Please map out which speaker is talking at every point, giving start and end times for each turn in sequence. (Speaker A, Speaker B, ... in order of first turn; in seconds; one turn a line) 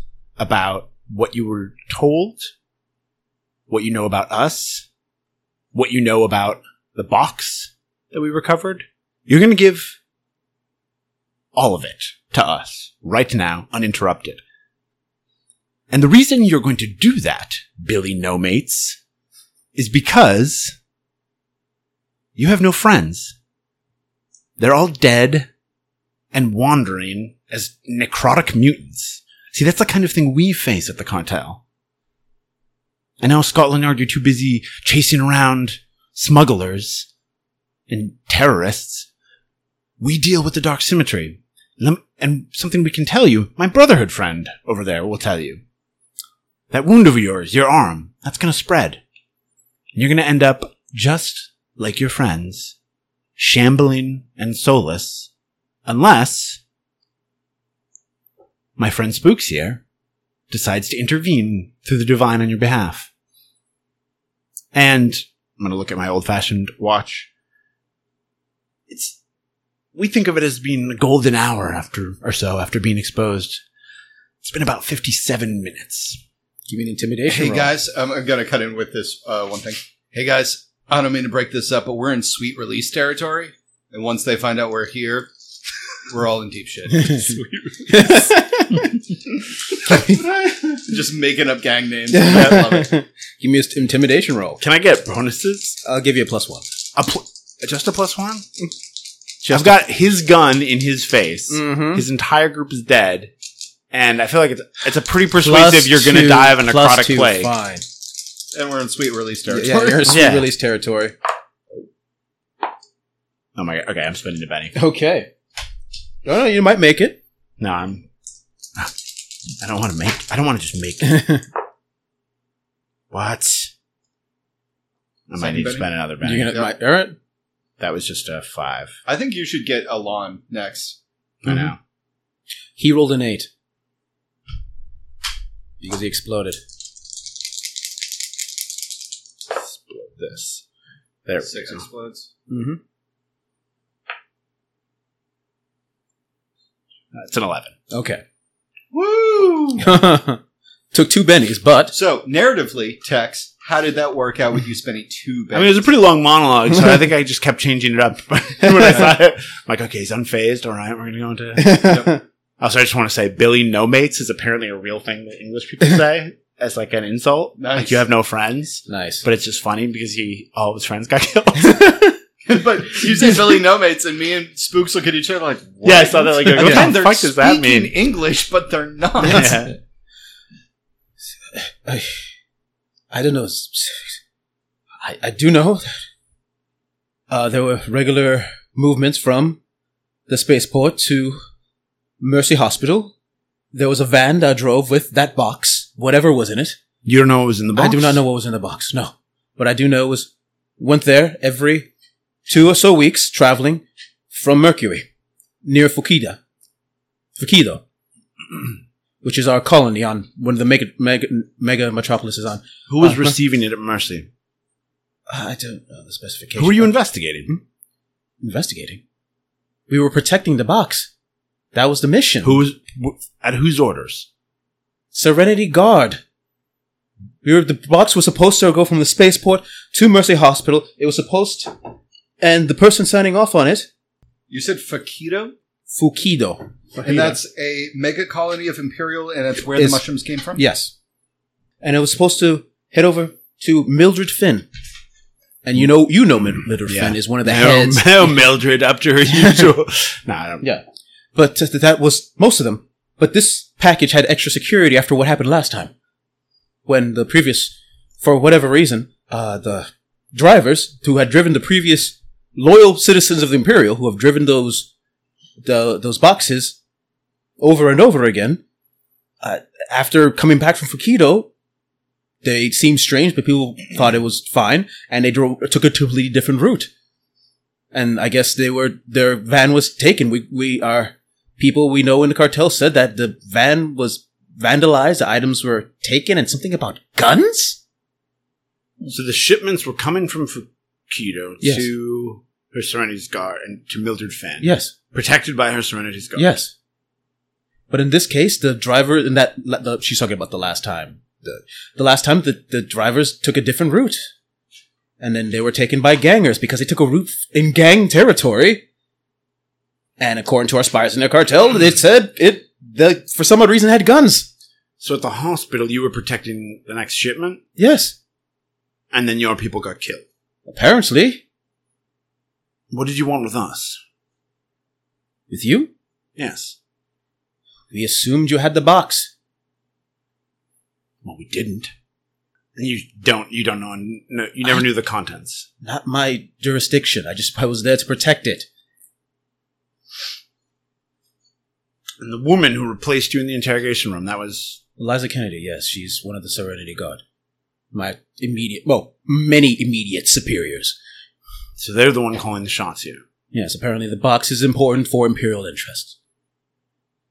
Speaker A: 0.4-2.5
Speaker A: 3.7-4.9
Speaker A: 5.7-10.0
Speaker A: 11.5-14.4
Speaker A: 15.9-19.0
Speaker A: 19.8-20.8
Speaker A: 22.4-23.4
Speaker A: 24.6-25.5
Speaker A: 26.3-31.6
Speaker A: 33.2-37.1
Speaker A: 37.9-39.1
Speaker A: 40.0-45.6
Speaker A: 46.7-49.0
Speaker A: 49.9-52.8
Speaker A: 53.4-55.3
Speaker A: 55.9-56.6
Speaker A: 58.8-59.8
Speaker A: 60.5-63.1
Speaker A: 64.7-67.3
Speaker A: 68.9-69.2
Speaker A: 69.9-73.6
Speaker A: 74.4-76.2
Speaker B: 76.7-77.7
Speaker C: 77.3-85.3
Speaker C: 86.1-87.4
Speaker A: 87.1-87.8
Speaker B: 87.9-88.9
Speaker B: 89.9-90.2
Speaker C: 90.7-92.9
Speaker B: 92.1-94.6
Speaker A: 94.6-95.8
Speaker B: 95.8-96.7
Speaker A: 97.0-98.5
Speaker B: 99.4-99.8
Speaker A: 99.5-103.3
Speaker B: 101.5-102.0
Speaker A: 103.9-107.5
Speaker B: 105.4-107.8
Speaker C: 108.5-110.2
Speaker B: 109.5-111.1
Speaker A: 110.1-110.5
Speaker A: 113.5-114.8
Speaker B: 114.8-115.3
Speaker B: 116.2-117.2
Speaker A: 117.6-118.1
Speaker A: 119.6-121.2
Speaker B: 121.0-121.5
Speaker A: 123.1-123.7
Speaker A: 125.3-126.6
Speaker C: 125.4-125.9
Speaker B: 126.2-127.2
Speaker A: 127.8-129.0
Speaker C: 129.1-131.0
Speaker A: 131.4-131.8
Speaker B: 132.8-133.5
Speaker B: 135.8-136.6
Speaker A: 139.5-140.6
Speaker A: 141.3-141.8
Speaker C: 141.4-142.3
Speaker B: 142.5-142.8
Speaker A: 147.1-147.7
Speaker B: 147.9-148.2
Speaker C: 148.9-150.0
Speaker B: 149.8-150.4
Speaker B: 150.9-151.9
Speaker C: 151.9-155.9
Speaker A: 155.5-161.9
Speaker B: 161.6-162.2
Speaker C: 161.8-162.1
Speaker A: 162.6-172.0
Speaker C: 167.6-168.0
Speaker B: 168.9-169.2
Speaker C: 172.5-179.7
Speaker A: 175.8-177.9
Speaker A: 179.2-179.7
Speaker B: 181.5-182.3
Speaker B: 183.1-184.2
Speaker B: 185.0-185.9
Speaker B: 187.3-189.6
Speaker B: 190.3-191.4
Speaker B: 192.2-193.1
Speaker B: 193.7-196.8
Speaker A: 197.0-198.2
Speaker B: 197.8-201.9
Speaker B: 202.5-205.1
Speaker B: 205.6-206.4
Speaker B: 207.4-207.8
Speaker B: 209.2-213.3
Speaker A: 212.9-214.3
Speaker B: 215.3-217.6
Speaker A: 216.6-217.5
Speaker B: 218.4-219.0
Speaker B: 219.9-221.1
Speaker B: 221.7-222.6
Speaker A: 222.4-224.3
Speaker B: 225.1-226.2
Speaker B: 227.4-231.7
Speaker B: 232.4-233.9
Speaker C: 234.5-235.5
Speaker B: 235.9-237.4
Speaker C: 237.0-240.6
Speaker B: 239.8-240.0
Speaker B: 240.6-240.9
Speaker B: 241.8-244.7
Speaker B: 245.6-248.3
Speaker A: 246.9-250.7
Speaker B: 251.3-255.9
Speaker B: 256.9-264.9
Speaker B: 265.6-266.8
Speaker B: 267.6-268.6
Speaker B: 269.4-271.5
Speaker B: 272.4-276.9
Speaker B: 277.9-287.8
Speaker A: 289.1-296.5
Speaker B: 291.6-291.9
Speaker B: 294.6-294.9
Speaker B: 296.4-296.7
Speaker B: 297.9-304.3
Speaker B: 305.2-308.8
Speaker B: 310.2-314.5
Speaker A: 315.0-317.6
Speaker B: 317.8-318.1
Speaker A: 319.1-320.2
Speaker B: 320.7-321.4
Speaker A: 322.9-324.0
Speaker B: 325.5-325.9
Speaker A: 326.4-326.8
Speaker B: 327.9-329.3
Speaker A: 331.2-331.9
Speaker A: 332.8-335.7
Speaker B: 335.8-338.7
Speaker A: 342.2-344.8
Speaker B: 345.0-347.2
Speaker B: 347.9-351.0
Speaker A: 351.8-353.2
Speaker B: 353.5-356.1